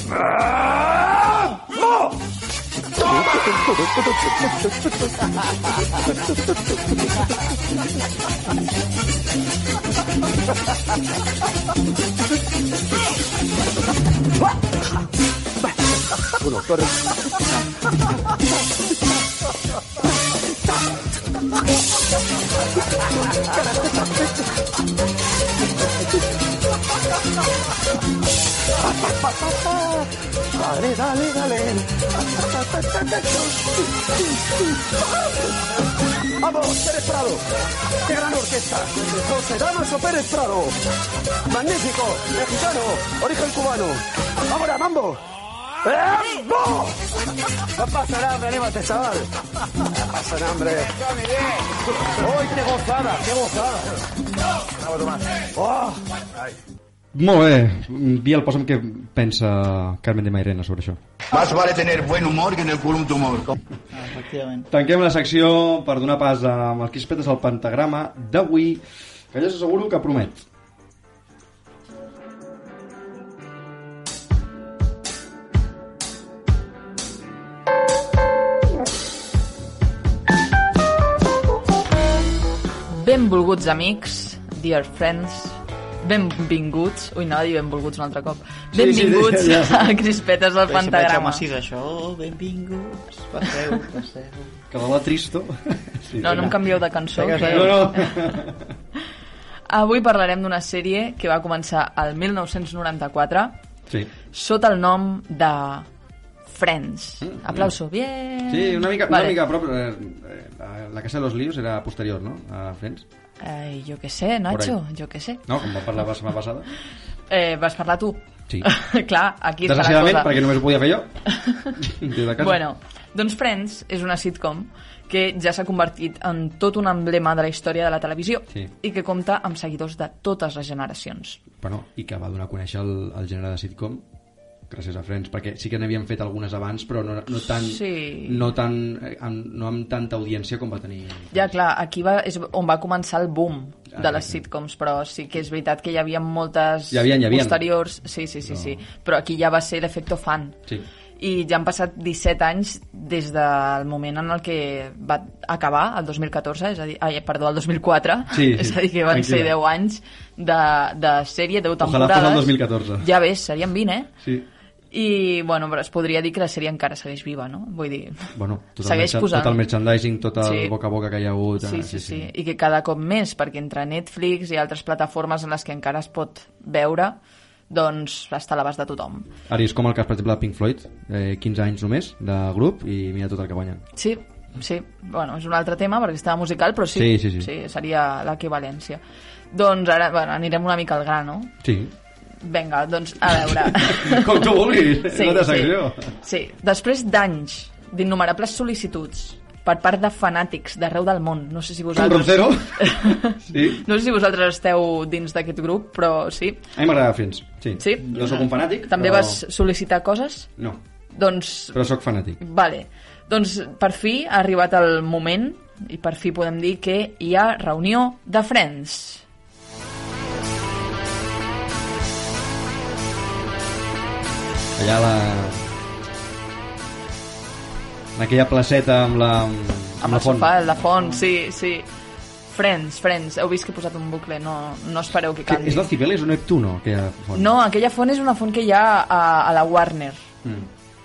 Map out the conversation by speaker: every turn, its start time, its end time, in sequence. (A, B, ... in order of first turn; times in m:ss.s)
0:03.1-0:04.0 A
0:16.4-0:16.9 A
0:29.0-0:30.0 A
0:30.6-0:31.8 A
0:32.4-0:34.9 A
0:36.4-0:37.4 A
0:38.0-0:40.7 A
0:41.5-0:45.2 A
0:45.8-0:46.9 A
0:47.8-0:49.3 A
0:50.1-0:50.9 A
0:52.2-0:53.9 A
0:55.6-0:56.0 A
0:57.1-1:01.0 B
1:01.3-1:03.5 C
1:03.9-1:04.7 D
1:04.7-1:10.4 B
1:22.9-1:31.4 E
1:28.7-1:30.0 B
1:30.7-1:34.6 D
1:34.7-1:36.6 B
1:36.2-1:38.4 E
1:36.2-1:36.6 D
1:37.1-1:37.9 D
1:37.3-1:38.7 B
1:39.7-1:43.6 E
1:44.3-1:45.9 E
1:46.4-1:49.4 E
1:47.2-1:47.7 B
1:48.5-1:53.0 B
1:53.4-1:55.4 E
1:54.5-1:54.8 B
1:55.4-1:56.7 B
1:57.3-2:00.3 E
1:59.6-2:01.1 B
2:01.3-2:01.8 E
2:01.8-2:02.6 B
2:02.4-2:11.4 E
2:11.6-2:14.0 B
2:14.7-2:21.5 B
2:17.5-2:18.5 E
2:21.3-2:30.6 E
2:23.9-2:24.4 B
2:26.9-2:27.6 B
2:28.5-2:28.8 B
2:31.2-2:44.1 E
2:38.3-2:39.5 B
2:41.8-2:43.1 B
2:44.2-2:44.5 B
2:44.9-2:49.6 E
2:48.3-2:52.3 B
2:50.4-2:50.7 E
2:51.6-2:57.2 E
2:57.7-2:59.3 E
2:59.5-3:03.8 B
3:03.9-3:11.5 E
3:06.9-3:07.5 B
3:11.6-3:11.9 B
3:12.4-3:26.6 E
3:13.3-3:16.1 B
3:21.9-3:23.8 B
3:26.7-3:29.4 B
3:27.8-3:30.5 E
3:28.1-3:28.4 D
3:31.1-3:31.8 E
3:31.7-3:32.4 B
3:32.4-3:39.2 E
3:44.8-3:45.6 B
3:48.2-3:50.5 B
3:50.0-3:51.9 E
3:50.5-3:51.3 D
3:52.5-3:55.9 E
3:55.4-3:57.6 B
3:57.3-4:00.2 E
4:00.4-4:00.7 B